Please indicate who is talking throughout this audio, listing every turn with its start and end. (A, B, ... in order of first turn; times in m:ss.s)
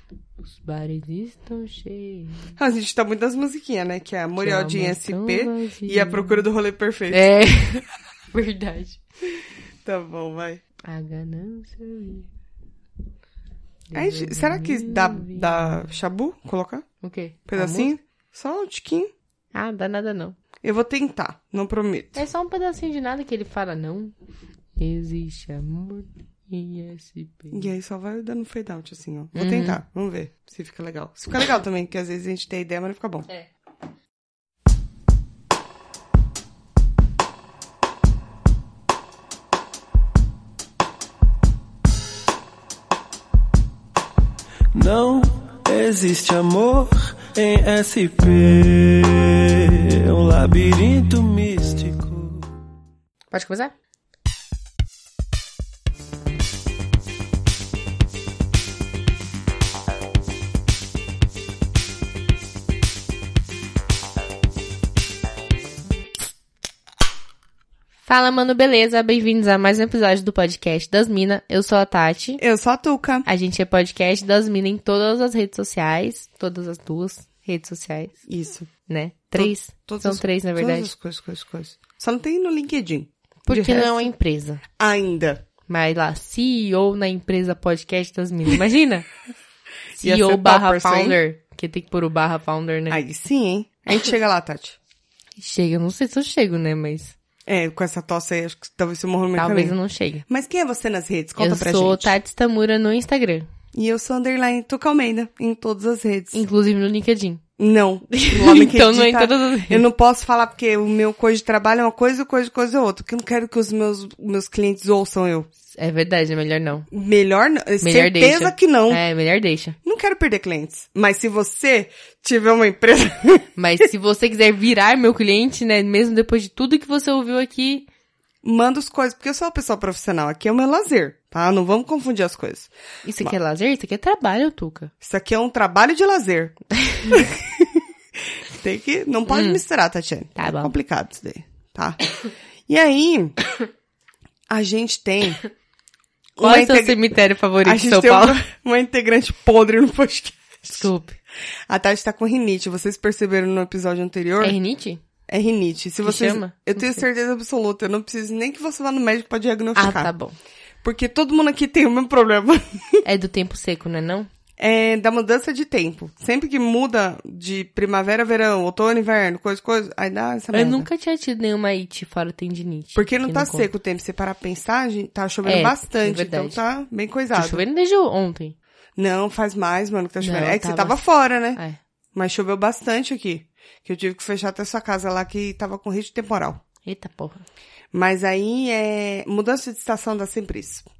0:00.4-0:02.5 A
0:02.6-0:07.3 B
0:04.4-0:06.5 A
0:07.1-0:09.0 A
0:09.8-0:10.6 B
0:10.8-0:12.3 A
0:13.9-0:15.8 A
0:13.9-0:16.8 B
0:17.0-0:17.9 A
0:17.5-0:19.1 B
0:19.5-0:20.4 A
0:20.6-0:22.2 B
0:22.1-0:24.1 A
0:24.8-0:27.7 A
0:27.5-0:33.3 B
0:29.3-0:29.8 A
0:44.7-0:52.4 C
0:53.3-0:53.7 A
1:08.0-1:12.4 A
1:12.4-1:13.3 B
1:13.2-1:18.2 A
1:18.2-1:18.7 B
1:18.9-1:20.9 A
1:19.3-1:24.1 B
1:23.4-1:24.6 A
1:24.8-1:25.4 B
1:25.7-1:29.0 A
1:30.0-1:33.0 A
1:30.0-1:31.2 B
1:32.9-1:34.8 B
1:35.4-1:37.1 A
1:37.4-1:39.8 B
1:39.4-1:40.2 A
1:40.3-1:42.1 B
1:41.4-1:43.5 A
1:43.7-1:46.4 B
1:46.3-1:47.4 A
1:47.6-1:55.5 B
1:48.1-1:49.8 A
1:55.7-1:56.9 A
1:56.9-1:59.0 B
1:57.8-1:59.7 A
1:59.8-2:03.5 B
2:03.6-2:07.9 A
2:08.4-2:13.4 B
2:13.0-2:14.9 A
2:15.0-2:16.6 B
2:16.8-2:17.2 A
2:17.1-2:17.8 B
2:18.5-2:22.0 B
2:19.3-2:19.6 A
2:20.4-2:20.7 A
2:22.7-2:23.4 B
2:24.5-2:25.4 B
2:26.4-2:27.0 B
2:26.4-2:28.4 A
2:27.6-2:30.9 B
2:30.7-2:31.2 A
2:31.7-2:34.6 B
2:34.4-2:35.0 A
2:35.3-2:40.1 B
2:36.0-2:37.0 A
2:39.7-2:40.4 A
2:40.8-2:43.0 B
2:43.0-2:44.3 A
2:44.6-2:50.9 B
2:50.5-2:53.7 A
2:53.0-2:57.6 B
2:55.4-2:56.6 A
2:57.3-2:58.6 A
2:59.0-3:01.6 B
3:00.2-3:01.0 A
3:02.1-3:06.6 B
3:06.8-3:07.4 A
3:07.9-3:10.8 B